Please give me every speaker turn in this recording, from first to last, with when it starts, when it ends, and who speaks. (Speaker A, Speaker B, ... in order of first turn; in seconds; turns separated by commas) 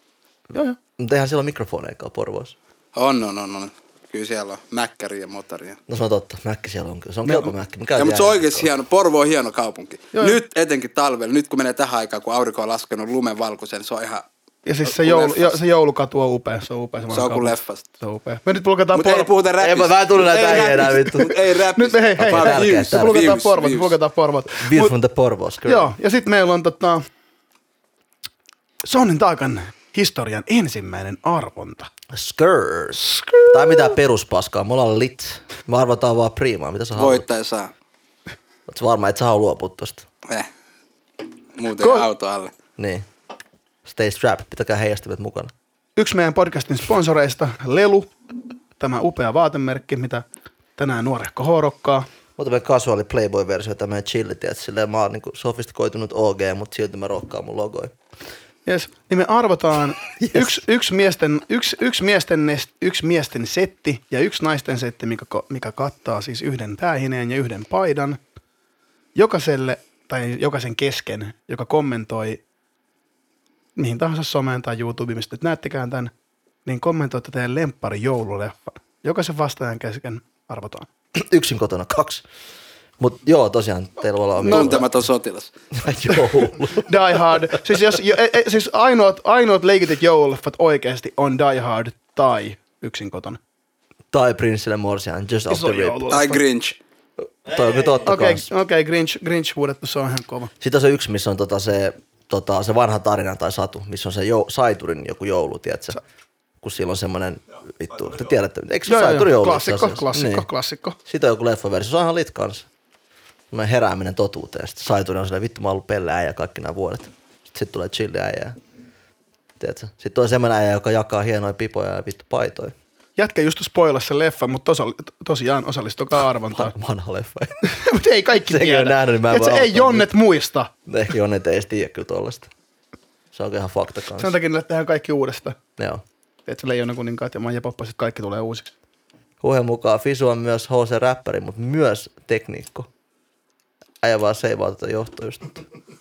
Speaker A: 0.5-0.8, Speaker B: 1.0-2.5, Speaker C: 2.9-5.8, Speaker B: 5.9-8.7, Speaker A: 7.2-7.5, Speaker C: 8.0-14.2, Speaker A: 14.7-19.3, Speaker C: 14.8-15.6, Speaker C: 17.1-17.8, Speaker C: 18.9-23.9, Speaker B: 19.6-21.3, Speaker A: 21.2-24.9, Speaker B: 22.2-23.4, Speaker B: 24.6-25.9, Speaker A: 25.6-27.0, Speaker A: 28.8-31.9, Speaker B: 32.1-37.2, Speaker A: 33.0-33.9, Speaker C: 37.0-37.7, Speaker B: 38.7-40.0, Speaker C: 41.5-42.5, Speaker A: 41.8-42.0, Speaker B: 42.8-43.0, Speaker B: 43.8-45.5, Speaker A: 46.0-48.1, Speaker A: 48.8-50.2, Speaker A: 50.8-52.0, Speaker B: 52.4-57.9, Speaker A: 58.6-68.2, Speaker B: 60.2-60.6, Speaker A: 69.1-72.4, Speaker A: 73.8-76.1, Speaker A: 76.6-80.9, Speaker B: 81.1-82.2, Speaker B: 83.0-84.9, Speaker C: 84.4-85.5, Speaker A: 84.5-84.8, Speaker B: 85.7-87.5, Speaker A: 86.7-93.4, Speaker B: 94.1-96.1, Speaker A: 95.5-96.4, Speaker C: 96.1-96.8, Speaker B: 97.4-98.5, Speaker A: 98.0-100.5, Speaker B: 100.6-106.0, Speaker B: 106.6-110.5, Speaker A: 108.8-111.0, Speaker B: 111.0-112.7, Speaker B: 113.5-118.6, Speaker B: 119.6-122.7, Speaker A: 123.2-126.7, Speaker B: 126.5-127.7, Speaker A: 127.6-130.7, Speaker B: 128.4-130.1, Speaker B: 130.9-132.5, Speaker B: 133.3-134.4, Speaker A: 134.2-135.6, Speaker B: 135.8-136.0, Speaker A: 136.4-138.7, Speaker B: 139.4-142.9, Speaker B: 144.0-145.6